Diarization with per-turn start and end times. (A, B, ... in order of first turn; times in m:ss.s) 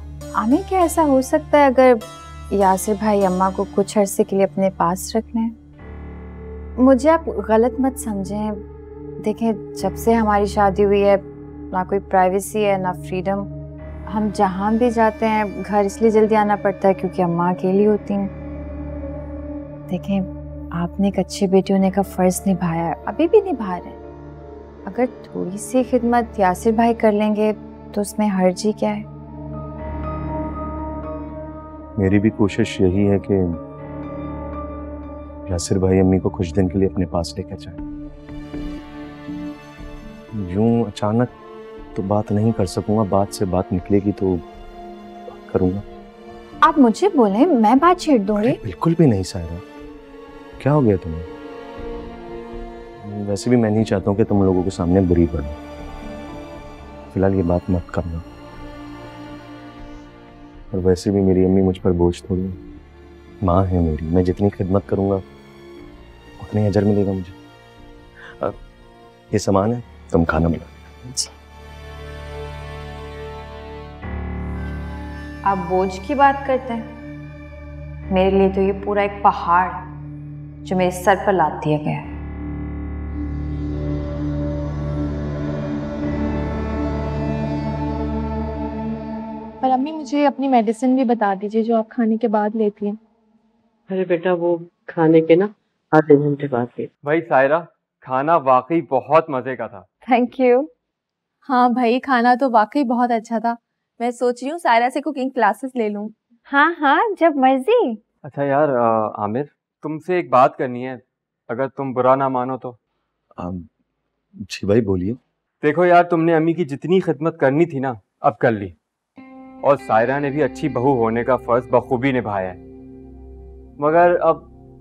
0:00.4-0:05.5 A
0:06.8-0:08.6 A
0:09.2-0:13.5 A
0:14.1-0:18.3 A
0:19.9-0:24.0 A
0:24.9-0:29.1 A
0:32.0-0:33.6 B
0:35.5-0:37.8 B
0:40.3-0:41.3 B
0:41.9-0:44.4 B
0:45.3-0:45.8 B
0:46.6-0:48.6 A
0:48.4-0:49.6 B
0:50.6-0:51.3 B
0:53.0-0:55.6 B
0:57.1-0:58.2 B
1:00.7-1:02.6 B
1:03.4-1:05.2 B
1:06.4-1:07.4 B
1:09.3-1:10.8 B
1:15.5-1:16.9 A
1:18.1-1:19.8 A
1:20.6-1:22.1 A
1:29.6-1:33.0 C
1:33.9-1:36.9 D
1:37.0-1:39.8 E
1:40.1-1:40.7 A
1:41.4-1:46.1 C
1:46.5-1:48.0 A
1:48.2-1:52.8 E
1:53.4-1:53.7 B
1:54.4-1:55.2 B
1:55.6-1:58.8 E
1:59.6-2:02.6 E
2:03.8-2:04.5 E